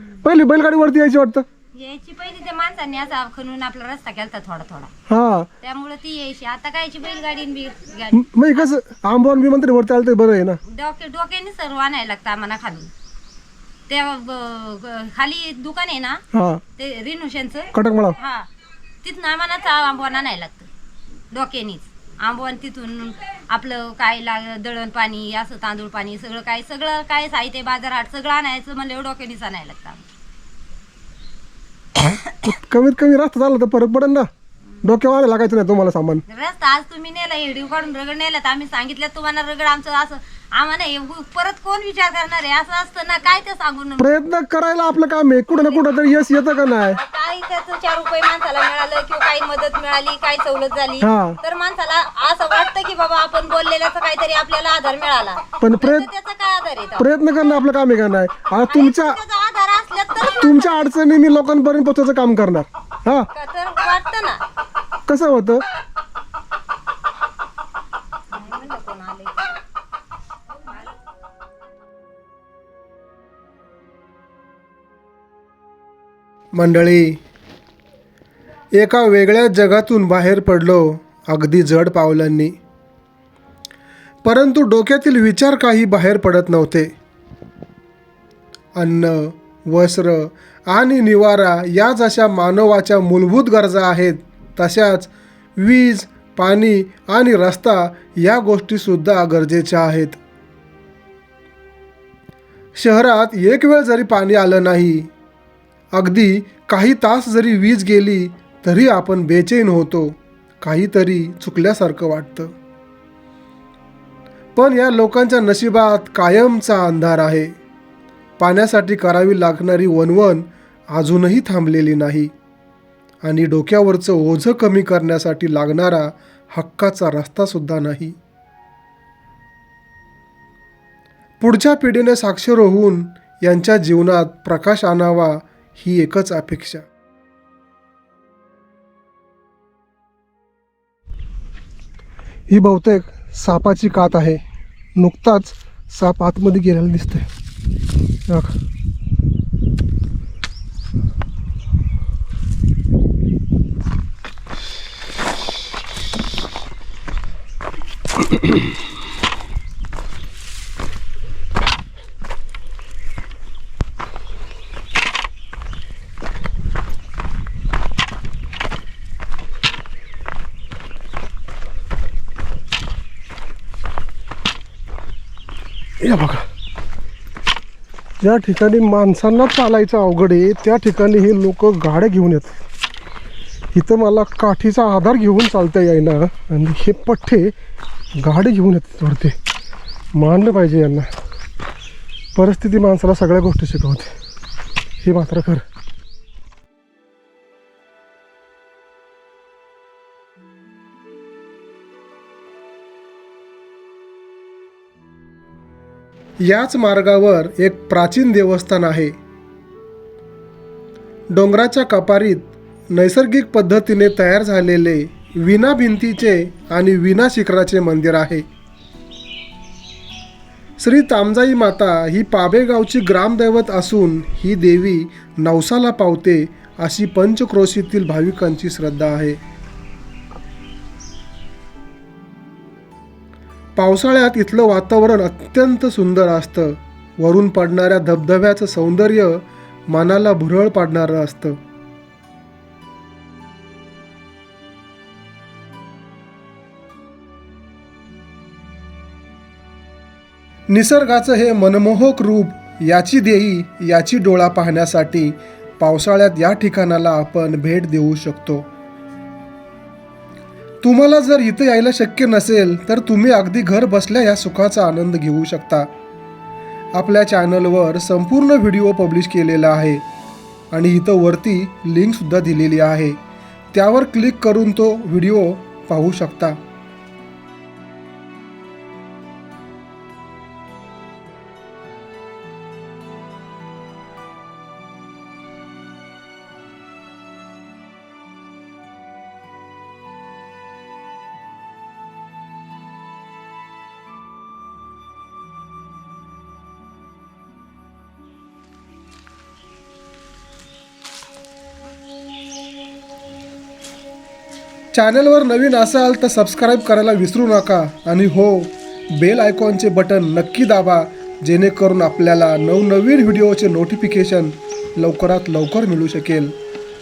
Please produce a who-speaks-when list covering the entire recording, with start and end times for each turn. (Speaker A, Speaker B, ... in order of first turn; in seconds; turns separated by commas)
Speaker A: 0.2-1.4, Speaker B: 1.8-4.9, Speaker A: 5.1-5.5, Speaker B: 5.6-8.7, Speaker A: 8.1-10.6, Speaker B: 10.7-12.9, Speaker B: 13.9-16.2, Speaker A: 16.3-16.6, Speaker B: 16.8-18.4, Speaker A: 17.7-18.2, Speaker B: 19.0-20.7, Speaker B: 21.3-30.0, Speaker A: 32.4-34.3, Speaker A: 34.8-36.2, Speaker B: 36.3-44.1, Speaker A: 44.0-47.0, Speaker B: 45.5-45.8, Speaker B: 46.9-57.1, Speaker A: 51.0-51.4, Speaker A: 55.6-56.1, Speaker A: 57.0-59.2, Speaker B: 58.6-60.9, Speaker A: 60.4-63.3, Speaker B: 63.3-64.4, Speaker A: 65.1-65.6, Speaker B: 68.3-69.4, Speaker A: 76.5-77.2, Speaker A: 78.8-82.5, Speaker A: 84.2-86.9, Speaker A: 88.8-100.2, Speaker A: 102.8-105.1, Speaker A: 105.9-112.5, Speaker A: 114.6-117.5, Speaker A: 118.4-122.3, Speaker A: 123.2-128.2, Speaker A: 131.4-136.8, Speaker A: 142.5-144.4, Speaker A: 145.0-147.3, Speaker A: 148.3-148.5, Speaker A: 176.0-176.5, Speaker A: 178.2-182.6, Speaker A: 183.7-187.5, Speaker A: 188.2-189.4, Speaker A: 190.1-191.1, Speaker A: 192.3-194.1, Speaker A: 195.0-195.7, Speaker A: 206.4-209.2, Speaker A: 211.3-218.4, Speaker A: 220.8-229.4, Speaker A: 233.8-241.6, Speaker A: 250.7-258.7, Speaker A: 260.8-265.9, Speaker A: 266.9-270.0, Speaker A: 270.7-273.2, Speaker A: 273.7-276.6, Speaker A: 304.9-316.5